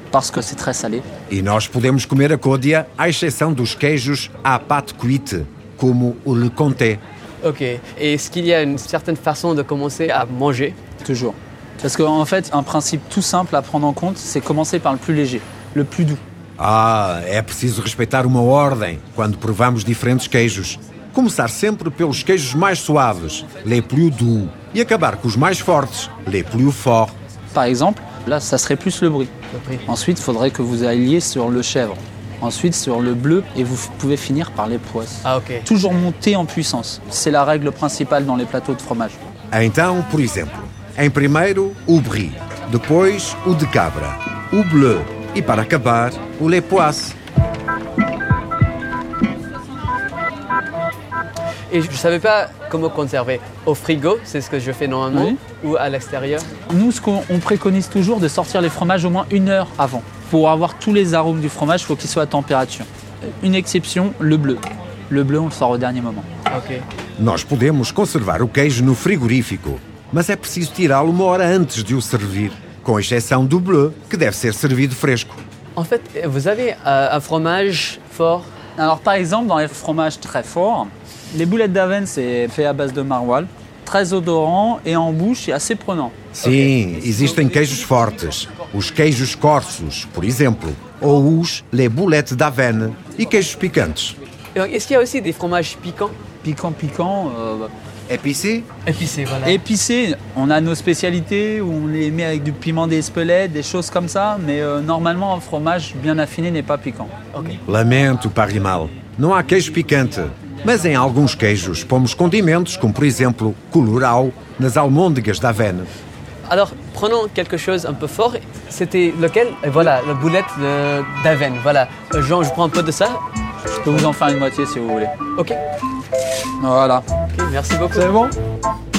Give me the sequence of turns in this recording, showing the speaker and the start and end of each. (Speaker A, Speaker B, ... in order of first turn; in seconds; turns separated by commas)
Speaker A: 0.1-1.1, Speaker B: 1.3-7.0, Speaker C: 7.4-10.8, Speaker A: 11.0-16.2, Speaker B: 16.6-27.2, Speaker A: 27.5-29.3, Speaker C: 29.5-29.9, Speaker A: 29.9-39.2, Speaker C: 35.2-35.7, Speaker B: 39.5-47.2, Speaker C: 51.7-56.5, Speaker A: 55.1-55.4, Speaker A: 56.7-66.3, Speaker C: 66.5-66.8, Speaker B: 67.2-75.4, Speaker C: 75.8-78.5, Speaker A: 78.8-86.2, Speaker B: 86.3-94.2, Speaker C: 86.4-86.7, Speaker C: 94.5-96.2, Speaker A: 96.4-97.7, Speaker B: 98.1-98.7, Speaker C: 98.9-99.6, Speaker A: 99.5-107.1, Speaker C: 107.3-107.6, Speaker B: 107.7-115.9, Speaker C: 116.5-123.2, Speaker A: 123.7-125.1, Speaker A: 126.6-127.0, Speaker C: 127.3-128.2, Speaker A: 127.9-128.3